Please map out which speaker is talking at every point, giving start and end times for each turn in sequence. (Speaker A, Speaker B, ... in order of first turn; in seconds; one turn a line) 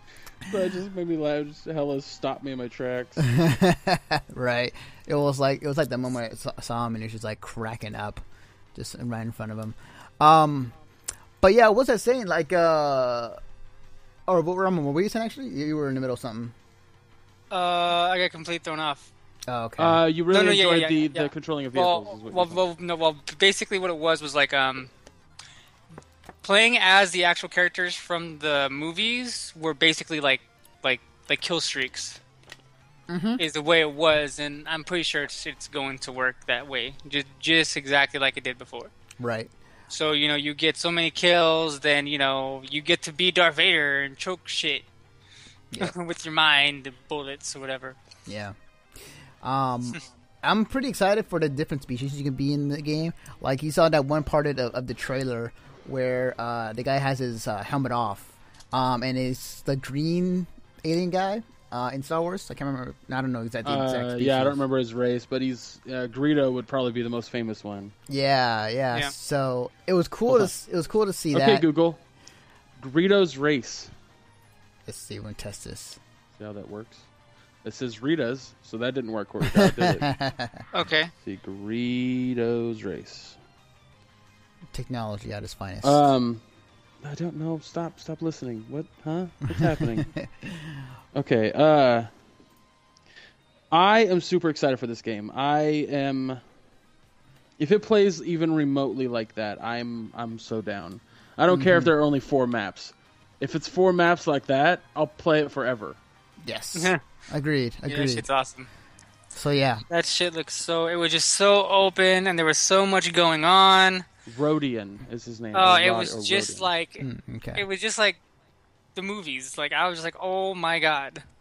Speaker A: 0.4-3.2
Speaker B: 3.2-8.2
Speaker B: 8.7-10.7
Speaker B: 11.4-13.4
Speaker B: 14.3-16.6
Speaker C: 17.5-19.1
Speaker B: 19.5-20.0
Speaker A: 19.8-22.6
Speaker C: 20.3-24.9
Speaker C: 26.4-32.2
Speaker B: 33.1-33.4
Speaker C: 33.4-38.9
Speaker B: 39.2-39.5
Speaker C: 39.9-44.9
Speaker C: 45.8-48.0
Speaker B: 48.3-48.5
Speaker B: 49.4-64.6
Speaker A: 63.6-67.9
Speaker B: 68.1-71.6
Speaker A: 71.3-72.0
Speaker A: 72.8-73.9
Speaker B: 74.9-76.0
Speaker A: 76.4-77.1
Speaker A: 77.6-80.1
Speaker B: 79.4-80.6
Speaker C: 80.7-81.1
Speaker A: 81.2-83.4
Speaker B: 84.7-86.0
Speaker A: 85.8-86.4
Speaker A: 87.0-90.1
Speaker B: 89.5-90.8
Speaker A: 91.1-92.1
Speaker A: 93.7-96.4
Speaker A: 97.6-106.0
Speaker B: 101.5-101.9
Speaker B: 106.4-108.2
Speaker C: 107.9-108.7
Speaker B: 109.3-109.8
Speaker C: 109.9-114.0
Speaker A: 114.3-116.7
Speaker C: 115.5-117.0
Speaker B: 117.0-117.6
Speaker C: 117.5-118.2
Speaker C: 119.0-121.2